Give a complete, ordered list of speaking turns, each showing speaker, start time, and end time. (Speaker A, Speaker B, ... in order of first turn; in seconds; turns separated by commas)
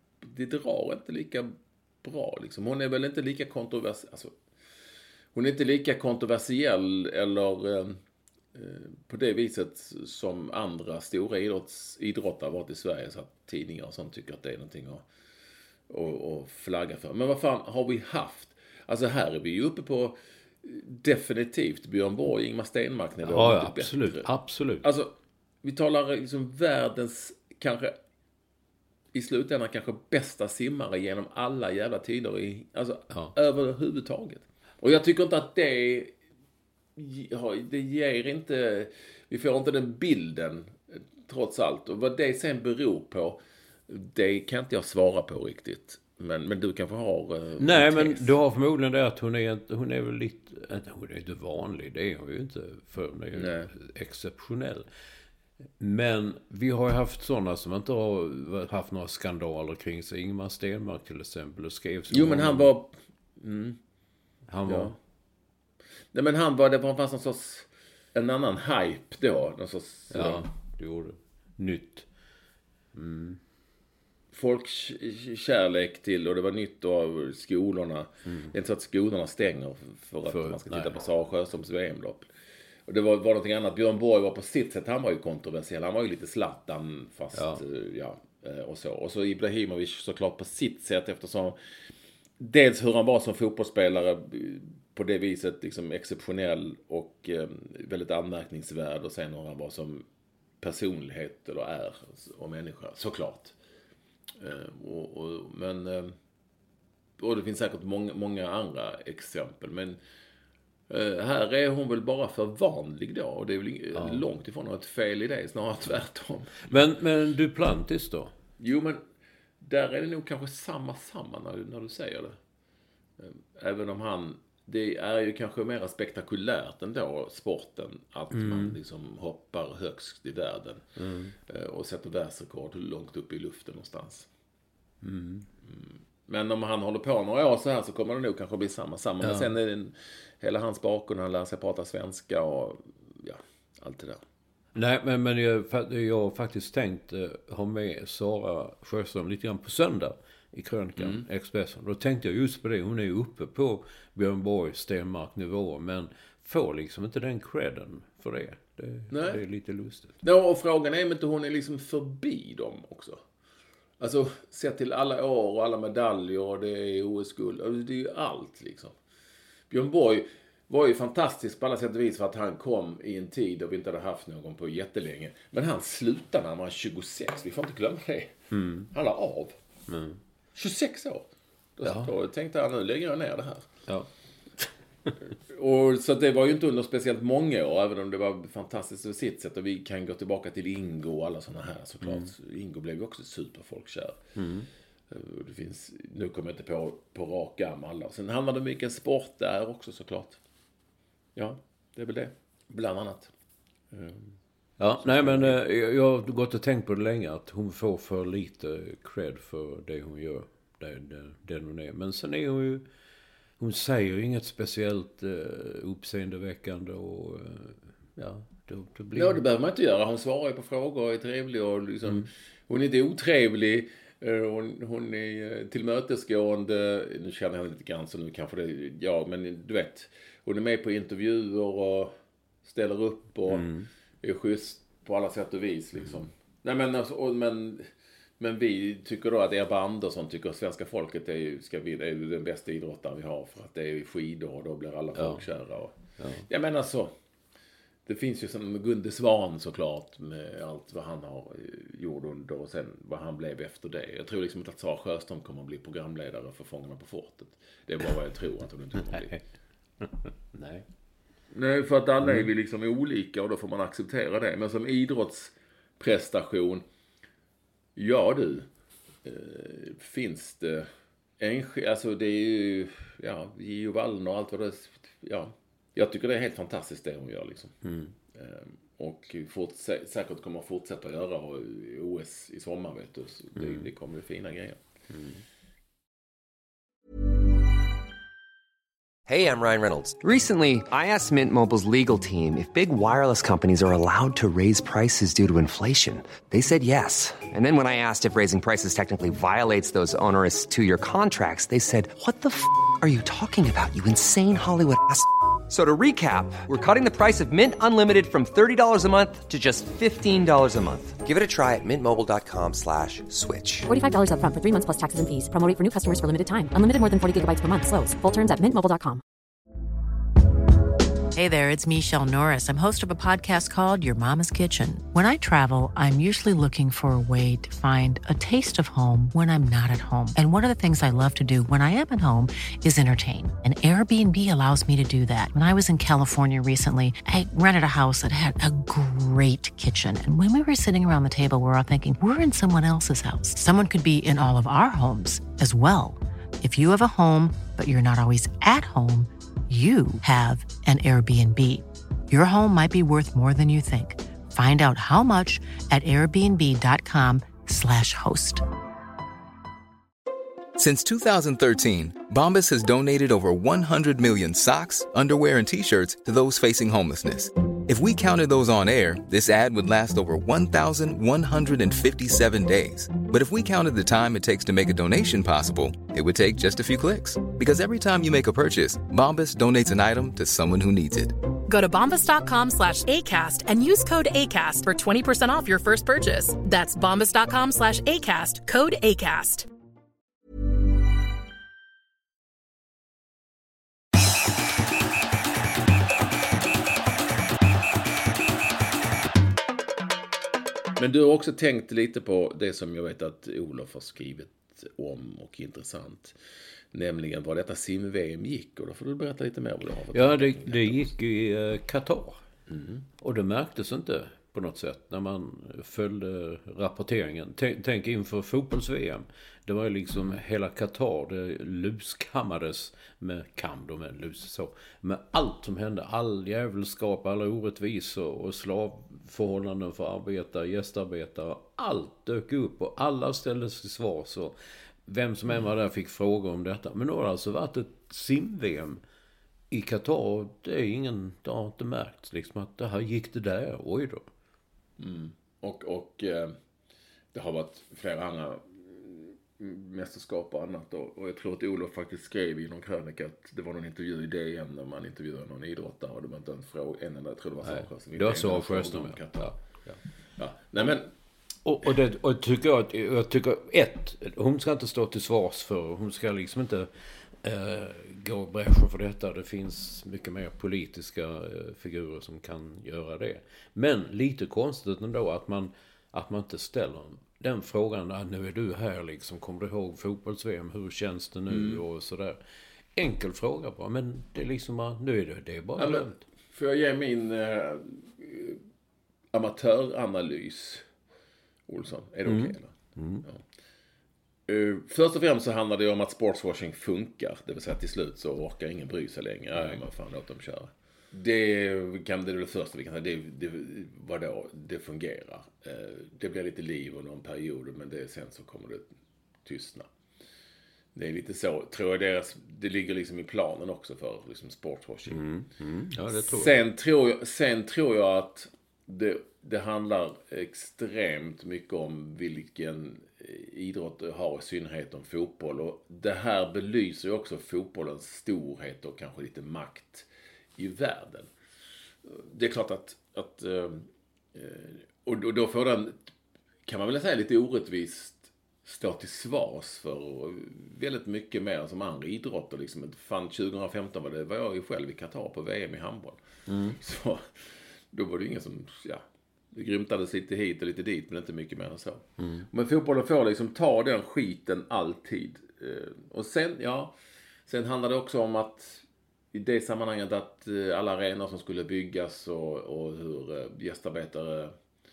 Speaker A: 0.2-4.3, Speaker A: 5.3-8.0, Speaker A: 8.5-15.0, Speaker A: 15.9-24.3, Speaker B: 23.2-24.8, Speaker A: 24.8-27.9, Speaker A: 29.1-36.1, Speaker A: 37.0-48.2, Speaker B: 47.6-54.9, Speaker A: 53.3-53.7, Speaker B: 55.8-62.7, Speaker A: 62.1-63.8, Speaker B: 64.5-64.9, Speaker A: 64.7-64.9, Speaker A: 66.1-70.5, Speaker B: 70.1-72.0, Speaker B: 72.9-73.4, Speaker A: 74.3-82.3, Speaker B: 80.3-81.0, Speaker A: 82.9-91.6, Speaker B: 87.3-87.6, Speaker A: 92.4-100.0, Speaker A: 100.6-103.5, Speaker A: 104.4-106.1, Speaker A: 107.2-110.0, Speaker A: 110.9-116.7, Speaker B: 113.9-114.2, Speaker B: 116.7-118.3, Speaker A: 118.6-119.0, Speaker A: 119.6-122.4, Speaker A: 123.2-130.8, Speaker B: 128.3-128.8, Speaker B: 131.0-131.3, Speaker A: 131.5-134.3, Speaker B: 135.0-135.5, Speaker A: 135.7-144.2, Speaker B: 139.2-139.5, Speaker B: 144.7-160.2, Speaker A: 151.0-151.2, Speaker A: 159.1-159.4, Speaker A: 160.2-163.2, Speaker A: 164.0-168.9, Speaker A: 169.7-178.3, Speaker B: 178.5-178.9, Speaker A: 178.9-179.5, Speaker B: 179.9-180.2, Speaker A: 180.6-183.7, Speaker B: 181.8-182.1, Speaker A: 185.5-194.2, Speaker B: 192.0-192.3, Speaker B: 194.3-194.7, Speaker A: 195.1-200.4, Speaker A: 201.3-203.3, Speaker A: 203.9-204.2, Speaker B: 204.8-212.8, Speaker A: 205.0-205.6, Speaker B: 213.6-219.4, Speaker A: 219.1-232.1, Speaker A: 232.6-237.9, Speaker B: 233.5-233.9, Speaker A: 238.4-245.9, Speaker B: 245.1-245.4, Speaker B: 246.2-246.4, Speaker A: 246.5-247.1, Speaker A: 248.1-259.3, Speaker B: 259.1-259.4, Speaker B: 260.0-260.8, Speaker A: 261.5-266.8, Speaker A: 267.9-268.7, Speaker A: 269.2-270.9, Speaker A: 271.4-277.7, Speaker B: 277.8-278.1, Speaker A: 278.3-284.8, Speaker B: 283.6-283.9, Speaker B: 285.1-285.4, Speaker C: 289.3-313.9, Speaker D: 313.9-319.2, Speaker E: 321.3-358.6, Speaker F: 360.8-381.3, Speaker G: 381.7-389.7, Speaker A: 401.0-406.4, Speaker A: 406.9-411.1, Speaker B: 410.1-412.4, Speaker A: 412.7-413.0, Speaker B: 413.2-439.0, Speaker B: 439.7-444.2, Speaker A: 445.0-446.5, Speaker A: 447.3-459.5, Speaker B: 457.6-460.0, Speaker A: 460.4-461.1, Speaker B: 461.6-466.9, Speaker B: 467.4-482.4, Speaker A: 481.5-481.8, Speaker B: 482.9-486.2, Speaker A: 485.8-488.6, Speaker A: 489.3-490.8, Speaker A: 491.7-492.7, Speaker B: 492.2-493.2, Speaker A: 494.5-508.9, Speaker A: 509.4-509.9, Speaker A: 510.9-515.2, Speaker B: 515.1-516.5, Speaker A: 516.1-531.3, Speaker A: 532.0-536.1, Speaker A: 536.7-546.2, Speaker B: 546.5-546.8, Speaker A: 546.8-547.3, Speaker A: 547.9-556.9, Speaker B: 552.2-552.5, Speaker A: 557.5-564.5